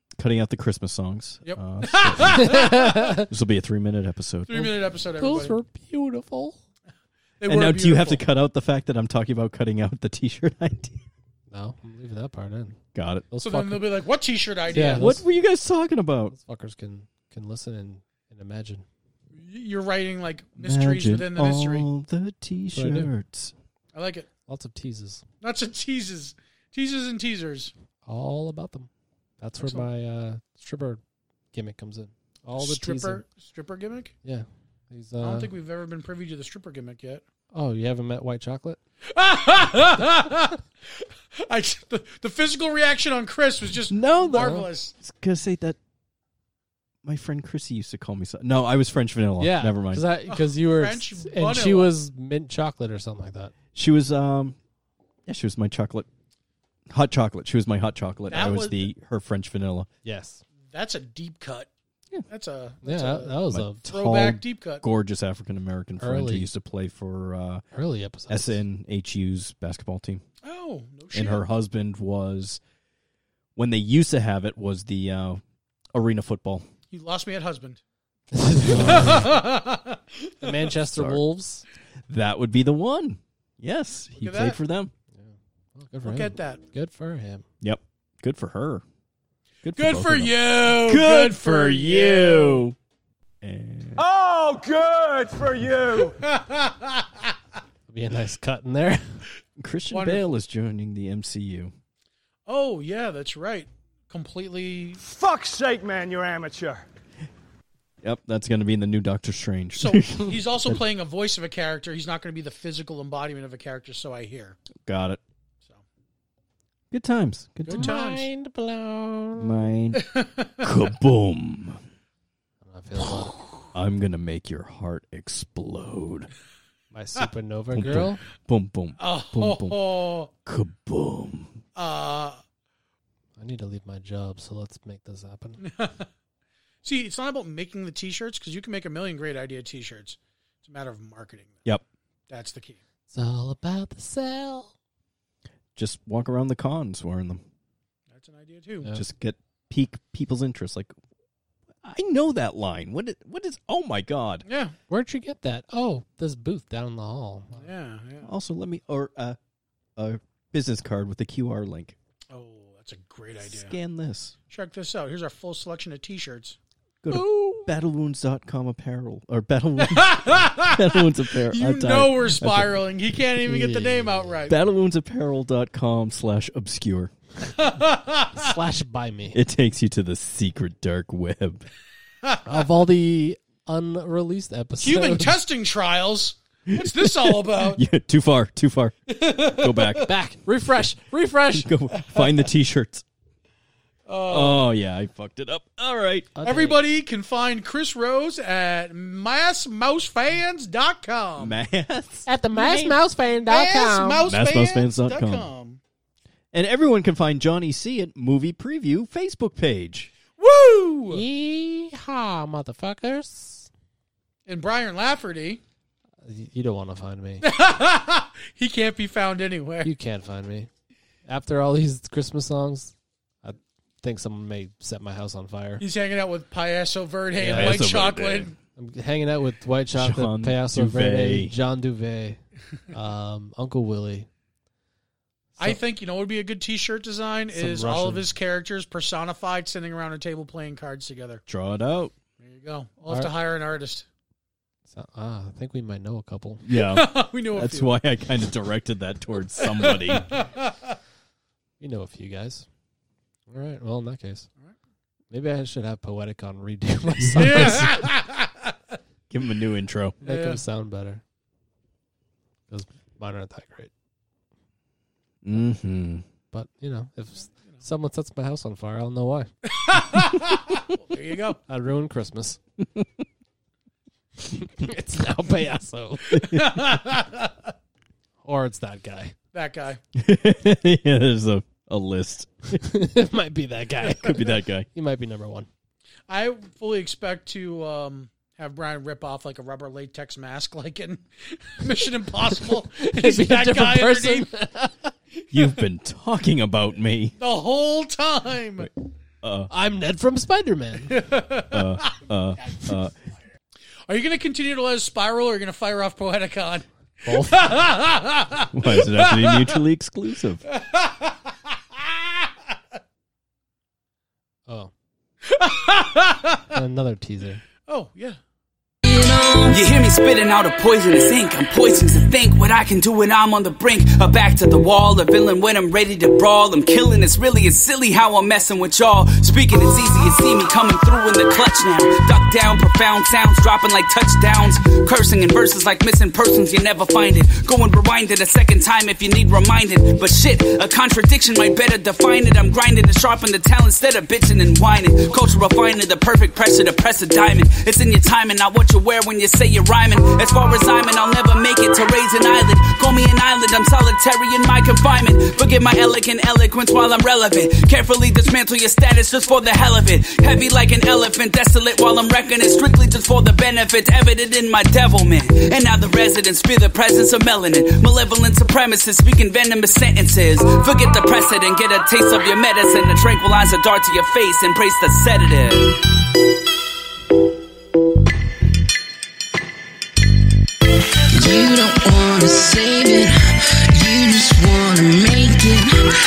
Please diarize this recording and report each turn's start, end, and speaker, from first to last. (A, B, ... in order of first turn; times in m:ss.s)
0:00.2-0:04.7 A
0:01.4-0:03.2 B
0:02.2-0:03.3 C
0:04.5-0:05.6 B
0:04.6-0:06.6 C
0:07.4-0:08.2 B
0:07.4-0:11.0 A
0:11.5-0:12.8 C
0:12.9-0:13.3 A
0:13.3-0:13.9 C
0:13.4-0:15.1 B
0:14.7-0:15.2 C
0:14.9-0:16.3 A
0:16.3-0:18.8 C
0:19.3-0:21.9 B
0:20.6-0:23.5 A
0:22.7-0:23.1 C
0:23.9-0:24.3 B
0:24.5-0:25.2 C
0:25.4-0:27.7 B
0:28.0-0:28.9 C
0:29.4-0:31.0 C
0:29.6-0:29.9 B
0:31.5-0:33.2 C
0:32.6-0:34.1 B
0:34.2-0:35.5 C
0:35.2-0:37.2 B
0:37.5-0:38.8 C
0:39.1-0:44.9 B
0:43.9-0:45.8 A
0:44.3-0:44.7 C
0:47.0-0:50.0 A
0:49.4-0:53.5 C
0:50.3-0:51.9 B
0:53.7-0:54.6 A
0:55.2-0:56.1 A
0:56.9-0:59.9 A
0:58.3-0:58.9 B
1:00.0-1:00.4 C
1:00.7-1:01.7 B
1:02.3-1:04.8 B
1:02.8-1:03.8 C
1:03.5-1:07.6 A
1:06.0-1:06.5 C
1:07.7-1:08.6 C
1:08.3-1:10.2 A
1:10.4-1:11.4 B
1:11.1-1:12.6 A
1:13.6-1:15.4 A
1:15.9-1:16.6 A
1:16.9-1:17.8 B
1:18.3-1:19.4 C
1:18.6-1:19.3 A
1:18.8-1:20.6 B
1:20.4-1:21.6 C
1:20.8-1:21.2 A
1:22.1-1:24.9 A
1:24.2-1:24.6 B
1:25.1-1:27.4 C
1:26.0-1:26.6 B
1:27.6-1:28.8 A
1:29.6-1:32.8 A
1:29.7-1:32.6 B
1:33.4-1:34.0 A
1:34.0-1:36.2 D
1:36.1-1:37.3 B
1:37.9-1:39.2 C
1:39.6-1:41.7 A
1:39.9-1:40.2 B
1:42.5-1:45.0 B
1:45.0-1:46.9 D
1:48.0-1:50.8 A
1:49.7-1:54.6 B
1:54.8-1:55.2 A
1:56.9-1:57.9 A
1:57.6-1:58.3 B
1:57.7-1:59.7 C
1:59.4-2:00.0 A
2:00.0-2:00.6 B
2:00.6-2:01.8 A
2:02.6-2:03.4 C
2:03.7-2:06.3 A
2:06.9-2:08.2 C
2:07.7-2:11.6 A
2:09.0-2:10.3 B
2:11.8-2:12.4 B
2:13.4-2:15.6 C
2:15.6-2:16.1 B
2:16.8-2:21.6 B
2:22.3-2:22.8 B
2:23.1-2:24.7 C
2:25.8-2:27.4 A
2:28.1-2:28.9 B
2:28.9-2:30.9 A
2:31.8-2:34.4 A
2:34.4-2:34.7 B
2:34.9-2:37.6 C
2:37.5-2:38.3 B
2:38.2-2:39.4 A
2:40.0-2:42.0 A
2:42.3-2:43.7 B
2:43.4-2:44.3 A
2:44.5-2:46.6 B
2:47.0-2:52.8 A
2:47.1-2:47.7 C
2:49.8-2:54.6 B
2:53.4-2:54.5 C
2:54.5-2:57.1 A
2:57.4-2:58.5 B
2:58.3-2:59.4 C
2:59.3-3:01.7 A
3:02.2-3:02.6 B
3:02.4-3:05.4 C
3:04.8-3:07.8 B
3:06.7-3:10.1 A
3:09.1-3:10.1 B
3:10.0-3:11.7 C
3:11.5-3:13.0 A
3:11.9-3:12.4 B
3:14.1-3:14.6 B
3:14.3-3:16.3 A
3:16.3-3:16.8 C
3:16.4-3:21.6 B
3:21.4-3:22.2 A
3:22.2-3:24.3 C
3:22.5-3:25.8 B
3:24.2-3:25.5 A
3:26.5-3:30.1 A
3:30.4-3:31.2 B
3:31.1-3:33.7 C
3:34.4-3:35.6 B
3:36.2-3:37.4 C
3:37.4-3:39.9 B
3:39.8-3:40.7 C
3:41.3-3:45.8 C
3:45.8-3:48.6 B
3:47.4-3:47.8 C
3:47.5-3:48.5 A
3:48.8-3:54.3 C
3:49.9-3:51.5 A
3:55.6-4:01.4 B
3:57.5-3:58.3 C
4:01.5-4:02.1 A
4:02.4-4:04.0 B
4:04.9-4:06.6 C
4:06.6-4:10.3 A
4:06.7-4:08.0 B
4:09.6-4:11.0 B
4:11.8-4:12.6 C
4:13.5-4:14.5 C
4:15.3-4:18.0 C
4:17.4-4:18.7 B
4:19.3-4:20.2 A
4:20.2-4:21.2 C
4:20.2-4:20.6 B
4:22.7-4:23.9 C
4:25.4-4:26.2 A
4:26.5-4:29.5 C
4:29.7-4:31.6 B
4:31.7-4:32.6 C
4:34.4-4:36.4 C
4:36.3-4:37.7 B
4:36.3-4:36.7 A
4:38.4-4:39.3 C
4:39.5-4:40.0 B
4:40.1-4:42.9 A
4:42.8-4:45.7 C
4:44.1-4:44.9 A
4:46.3-4:54.5 B
4:52.7-4:55.1 C
4:55.5-4:55.8 B
4:55.5-4:57.4 A
4:57.4-4:58.9 B
4:59.4-4:59.7 A
4:59.7-5:01.2 C
5:01.1-5:02.2 B
5:01.7-5:03.1 A
5:04.1-5:09.8 B
5:07.2-5:07.8 C
5:08.7-5:10.6 A
5:10.6-5:12.5 B
5:15.4-5:16.8 B
5:16.7-5:17.6 C
5:17.8-5:18.4 B
5:19.0-5:19.8 E
5:19.7-6:16.0 F
6:21.3-6:25.9 E